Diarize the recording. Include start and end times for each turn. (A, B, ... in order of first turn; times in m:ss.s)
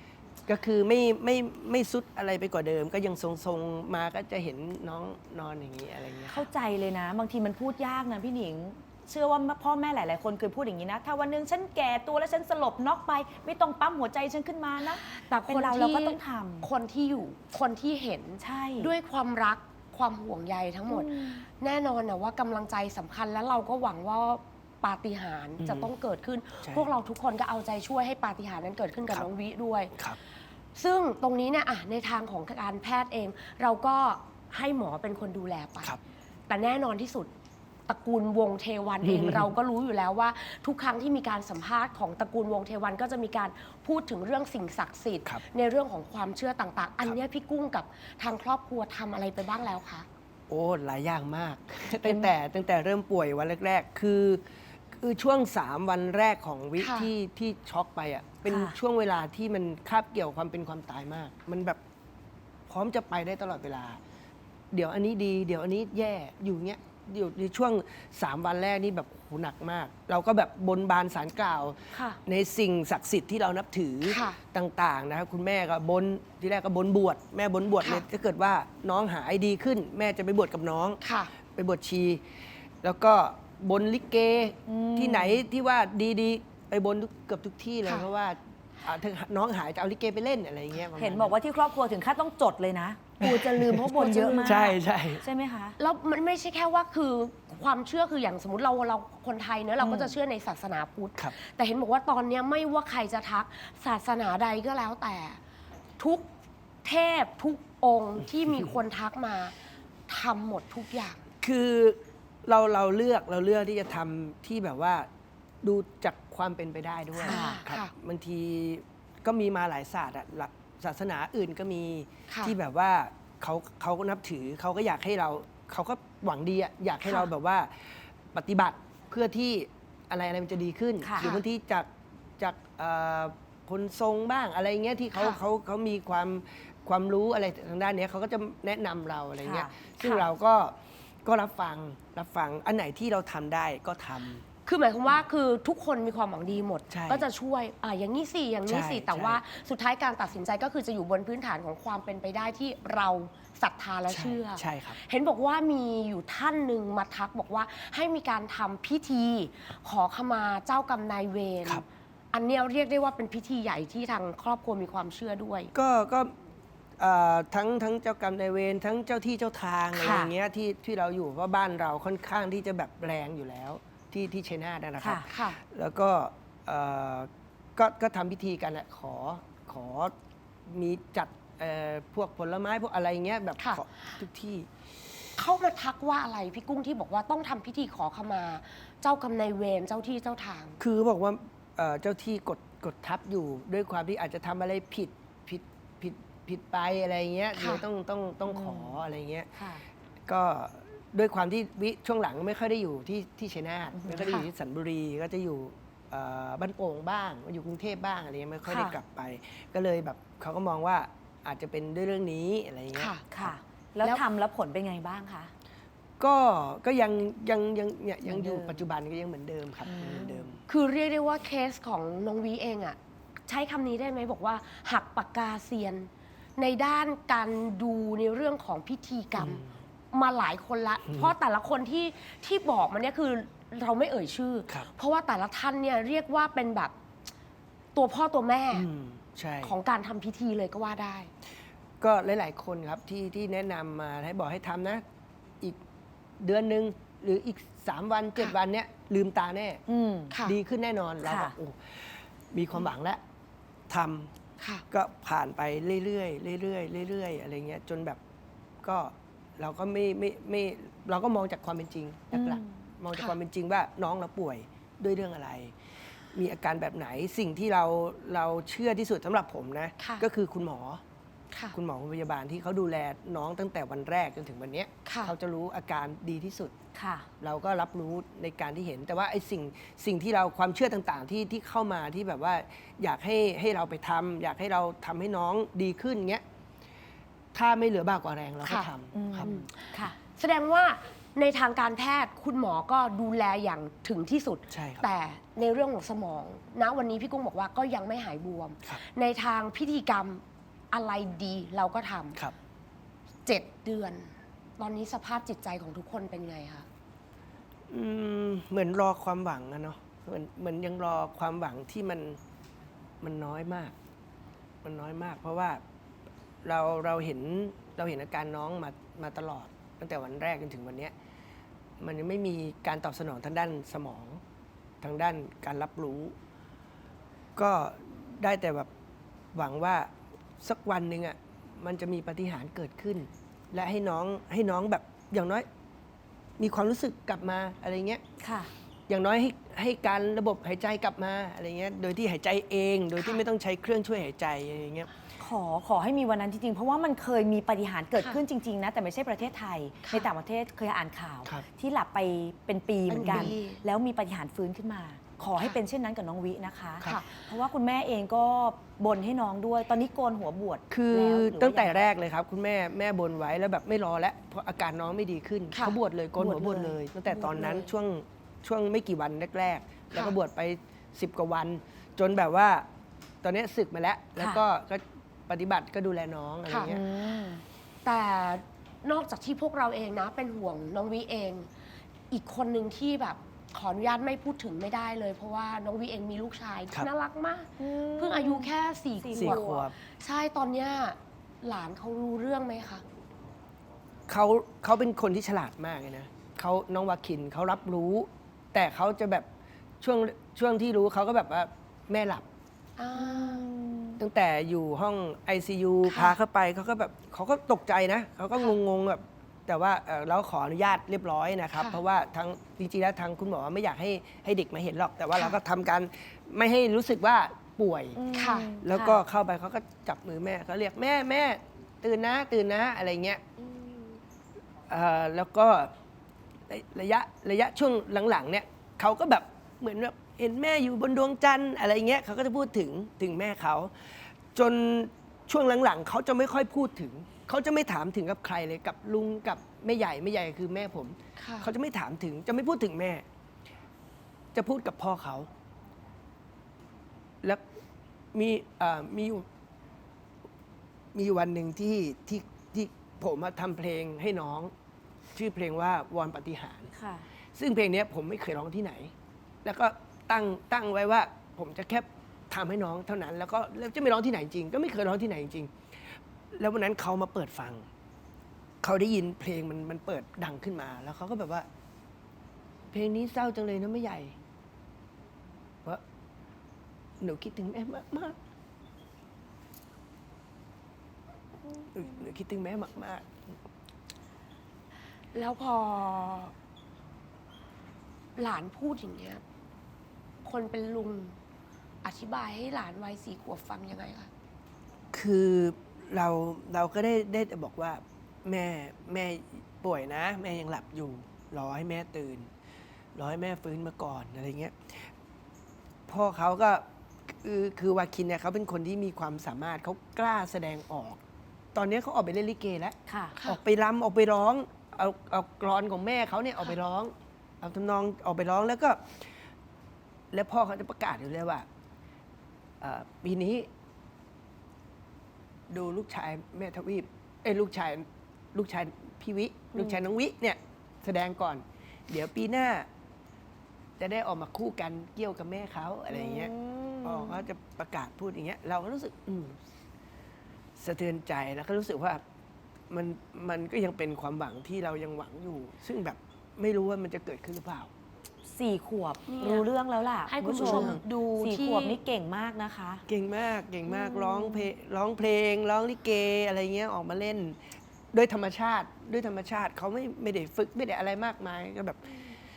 0:00.5-0:06.5 A
0:06.3-0:16.7 B
0:14.9-0:30.0 C
0:18.4-0:18.9 B
0:20.9-0:21.4 B
0:25.6-0:25.9 A
0:30.8-0:36.0 C
0:36.5-0:37.3 C
0:37.9-0:50.1 C
0:39.0-0:39.5 A
0:50.5-1:01.8 A
0:52.0-0:52.3 B
0:56.8-0:57.1 C
0:58.4-0:58.8 B
1:02.7-1:04.0 A
1:04.7-1:31.4 A
1:14.1-1:14.4 C
1:21.0-1:21.3 C
1:24.7-1:25.4 B
1:31.0-1:35.8 B
1:33.2-1:35.2 A
1:34.0-1:34.6 C
1:35.8-1:45.4 C
1:39.8-1:40.1 B
1:46.0-1:46.3 C
1:46.8-1:49.5 C
1:50.1-1:51.2 C
1:51.4-1:55.1 A
1:55.6-2:24.4 A
1:57.2-1:57.9 C
1:57.2-1:57.6 B
2:02.3-2:02.6 C
2:11.0-2:11.3 B
2:19.4-2:20.3 B
2:24.7-2:45.7 C
2:26.9-2:27.2 A
2:28.7-2:29.4 A
2:34.1-2:35.0 A
2:45.7-2:46.3 A
2:47.0-3:00.1 A
2:50.0-2:50.2 C
2:50.0-2:50.3 B
2:55.0-2:55.3 B
2:55.3-2:55.6 C
3:00.7-3:05.1 A
3:03.6-3:03.9 C
3:05.4-3:10.8 C
3:10.8-3:19.5 A
3:17.6-3:17.8 C
3:18.5-3:19.0 B
3:19.6-3:19.8 B
3:20.3-3:33.5 A
3:24.0-3:24.3 B
3:24.2-3:24.5 C
3:28.7-3:29.0 B
3:33.0-3:33.2 C
3:33.3-3:35.5 B
3:36.2-3:40.6 A
3:38.2-3:38.8 B
3:39.8-3:40.5 B
3:40.7-3:43.0 C
3:43.5-3:49.6 C
3:49.4-3:49.7 A
3:50.1-3:56.9 C
3:51.1-3:51.3 A
3:58.0-3:58.9 C
3:58.7-3:59.8 A
3:59.6-4:01.3 C
4:02.0-4:05.0 A
4:06.4-4:09.8 A
4:09.9-4:10.3 B
4:10.3-4:10.6 C
4:10.4-4:13.2 A
4:11.2-4:11.5 B
4:13.9-4:14.3 A
4:14.9-4:18.2 A
4:18.8-4:25.8 A
4:22.3-4:22.9 B
4:26.3-4:31.0 A
4:30.0-4:30.3 C
4:31.5-4:31.8 C
4:31.7-4:36.7 A
4:35.1-4:35.3 C
4:37.0-4:37.3 B
4:37.4-4:46.4 A
4:47.5-4:49.5 A
4:48.6-4:48.9 C
4:49.1-4:50.2 B
4:49.4-5:02.4 C
4:54.7-4:55.1 A
5:03.5-5:06.9 C
5:07.9-5:12.4 A
5:13.2-5:13.9 A
5:14.8-5:15.8 A
5:16.6-5:21.1 A
5:22.0-5:24.4 A
5:25.0-5:26.4 A
5:27.6-5:28.9 A
5:29.5-5:35.7 A
5:36.6-5:38.2 A
5:38.4-5:38.7 B
5:39.1-5:45.1 A
5:45.4-6:02.0 B
5:53.1-5:53.8 C
5:53.2-5:53.5 A
5:57.0-5:57.4 C
6:00.9-6:12.9 A
6:05.7-6:06.0 C
6:06.4-6:07.9 B
6:13.4-6:17.1 A
6:14.4-6:14.6 B
6:16.7-6:17.0 C
6:16.8-6:17.6 B
6:18.0-6:21.7 C
6:22.3-6:33.0 C
6:27.8-6:29.8 B
6:29.3-6:29.9 A
6:34.3-6:39.5 A
6:40.0-6:42.5 A
6:43.0-6:43.6 C
6:43.2-6:44.2 B
6:44.2-6:58.2 A
6:46.1-6:46.3 C
6:58.2-6:59.2 B
6:58.4-6:58.7 C
6:58.8-7:03.4 A
7:04.9-7:05.9 A
7:06.7-7:23.2 A
7:21.4-7:21.7 C
7:24.5-7:25.5 A
7:28.3-7:29.5 A
7:31.1-7:34.7 A
7:35.4-7:36.9 A
7:36.9-7:37.3 B
7:37.6-7:39.1 A
7:39.6-7:47.9 A
7:48.8-7:51.7 A
7:52.9-7:54.4 A
7:57.2-7:58.4 A
8:01.9-8:03.6 A
8:05.3-8:06.5 C
8:08.4-8:09.4 C
8:10.4-8:11.4 C
8:12.0-8:14.3 C
8:15.1-8:22.5 A
8:23.2-8:25.1 A
8:26.1-8:31.2 A
8:31.7-8:39.4 A
8:33.1-8:33.4 B
8:40.3-8:41.7 A
8:42.8-8:43.7 A
8:45.7-8:52.9 A
8:49.7-8:50.0 B
8:54.0-8:56.5 A
8:56.1-8:57.4 B
8:57.0-8:59.6 A
9:00.8-9:02.2 A
9:02.9-9:07.9 A
9:08.5-9:13.0 B
9:09.3-9:09.7 C
9:10.3-9:12.0 C
9:10.4-9:11.0 A
9:13.1-9:17.6 A
9:13.9-9:14.7 B
9:18.1-9:22.2 A